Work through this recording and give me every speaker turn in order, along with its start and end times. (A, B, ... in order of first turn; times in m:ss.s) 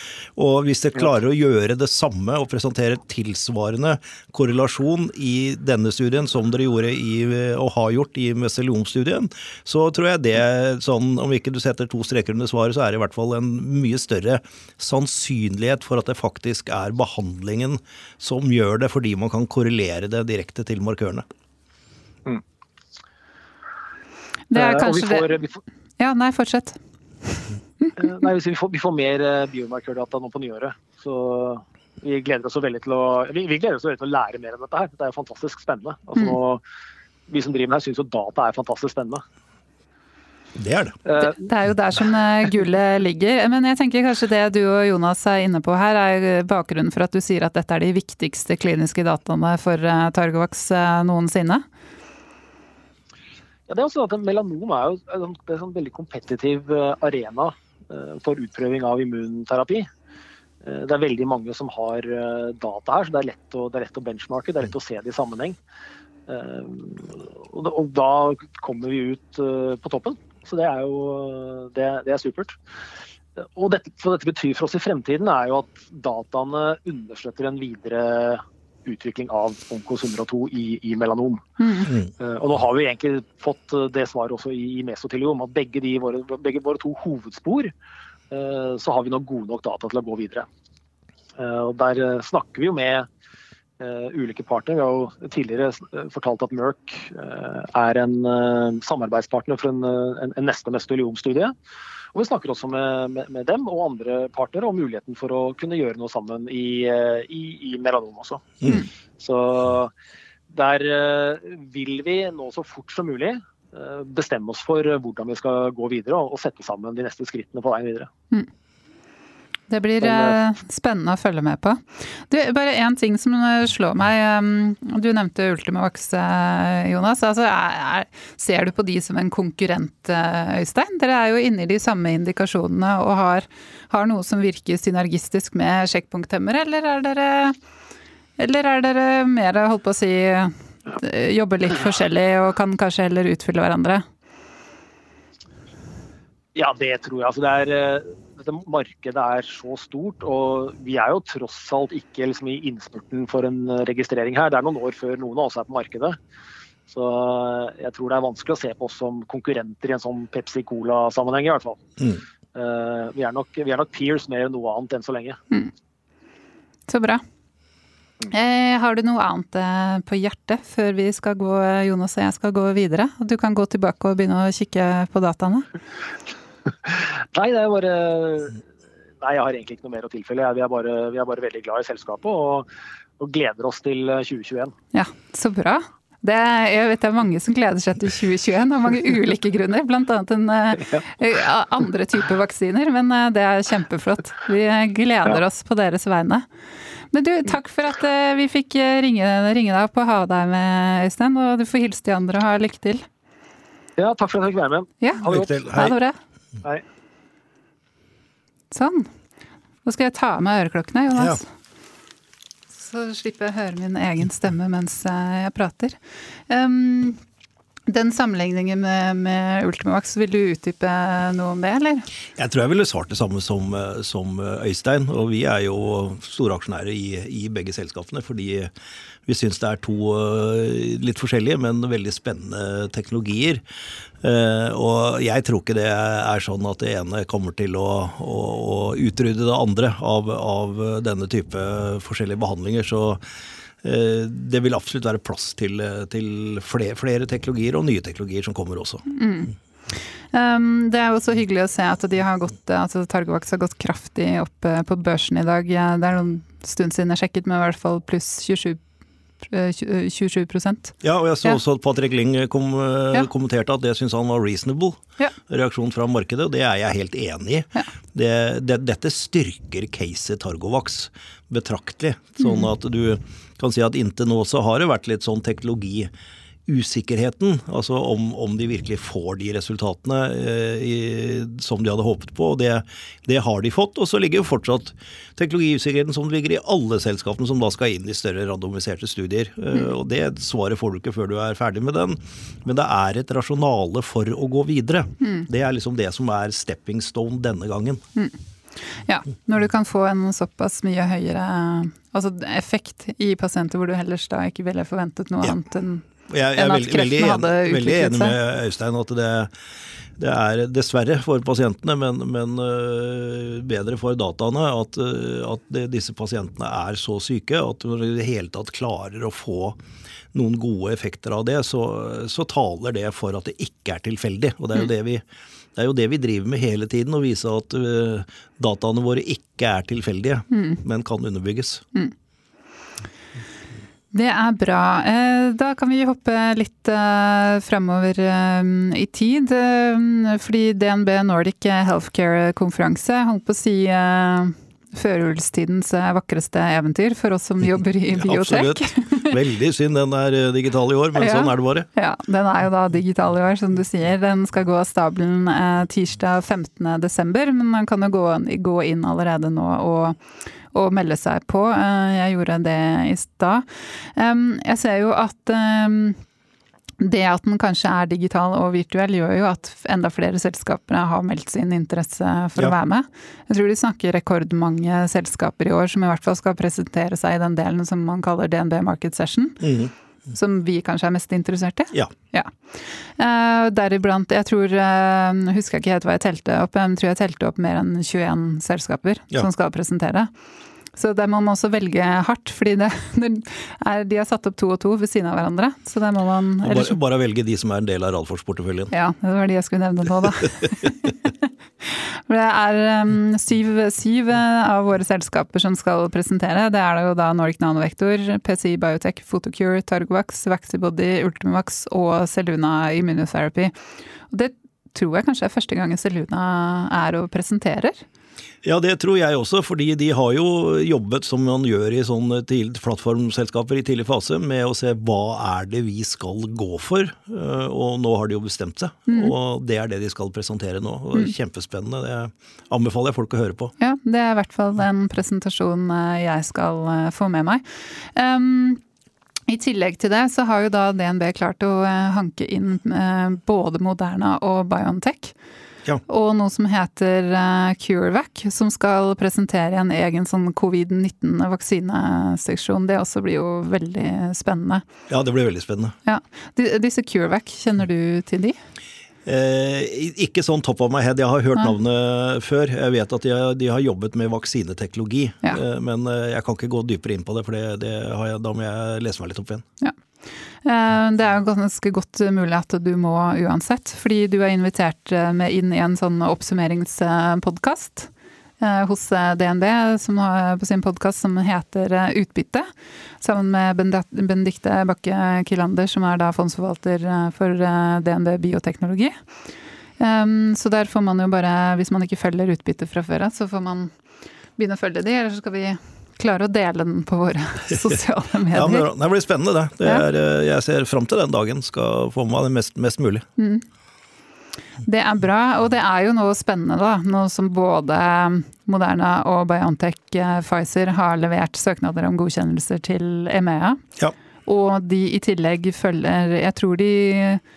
0:00.4-0:21.2 A
0:24.5-0:25.3 B
0:24.5-0:25.6 C
0:26.0-0:27.9 B
0:28.0-0:36.6 C
0:37.3-0:39.2 C
0:40.6-0:41.0 A
0:41.0-0:41.4 C
0:41.2-0:51.6 B
0:53.7-0:59.9 C
1:00.6-1:05.6 C
1:06.3-1:12.6 C
1:13.4-1:21.4 C
1:21.6-1:21.9 B
1:22.2-1:27.7 C
1:28.3-1:30.5 C
1:31.4-1:33.1 C
1:33.8-1:41.5 C
1:42.1-1:49.9 C
1:50.5-1:58.1 C
1:59.7-2:17.6 B
2:00.0-2:00.4 C
2:18.4-2:24.0 B
2:26.5-2:36.2 C
2:36.9-2:41.8 C
2:42.5-2:45.4 C
2:46.9-2:47.2 B
2:48.3-2:55.7 B
2:56.9-2:58.6 C
2:59.2-3:02.7 C
3:03.2-3:04.7 C
3:04.9-3:16.4 B
3:17.1-3:23.0 B
3:24.0-3:25.6 C
3:25.0-3:26.2 B
3:25.2-3:26.0 A
3:28.7-3:29.1 B
3:29.8-3:31.4 B
3:32.7-3:36.0 B
3:36.5-3:37.2 B
3:37.9-3:42.1 B
3:42.4-3:48.7 A
3:49.3-3:53.6 A
3:54.2-4:03.2 A
4:03.8-4:09.0 A
4:09.1-4:18.8 B
4:19.5-4:21.6 B
4:21.0-4:36.1 A
4:32.4-4:32.7 B
4:36.6-4:58.0 A
4:55.2-4:55.5 B
4:58.2-5:08.4 B
5:06.3-5:09.5 A
5:10.2-5:19.8 A
5:20.3-5:25.2 A
5:25.8-5:31.8 A
5:30.5-5:30.8 B
5:34.1-5:49.4 B
5:48.2-5:51.9 A
5:51.1-6:00.2 B
6:00.7-6:06.2 B
6:07.0-6:19.8 B
6:19.6-6:19.9 A
6:20.3-6:30.3 B
6:31.0-6:37.0 B
6:36.6-6:38.9 A
6:38.9-6:53.7 B
6:54.3-6:58.0 B
6:58.6-7:13.7 A
7:09.1-7:09.3 B
7:13.8-7:18.8 B
7:19.5-7:25.3 B
7:26.0-7:34.8 B
7:35.1-7:36.0 A
7:36.0-7:38.6 B
7:39.2-7:49.6 A
7:50.6-8:02.7 B
8:03.2-8:09.1 B
8:10.0-8:13.9 B
8:14.6-8:18.9 B
8:18.5-8:23.2 A
8:23.4-8:23.6 B
8:24.8-8:33.8 B
8:34.4-8:37.4 B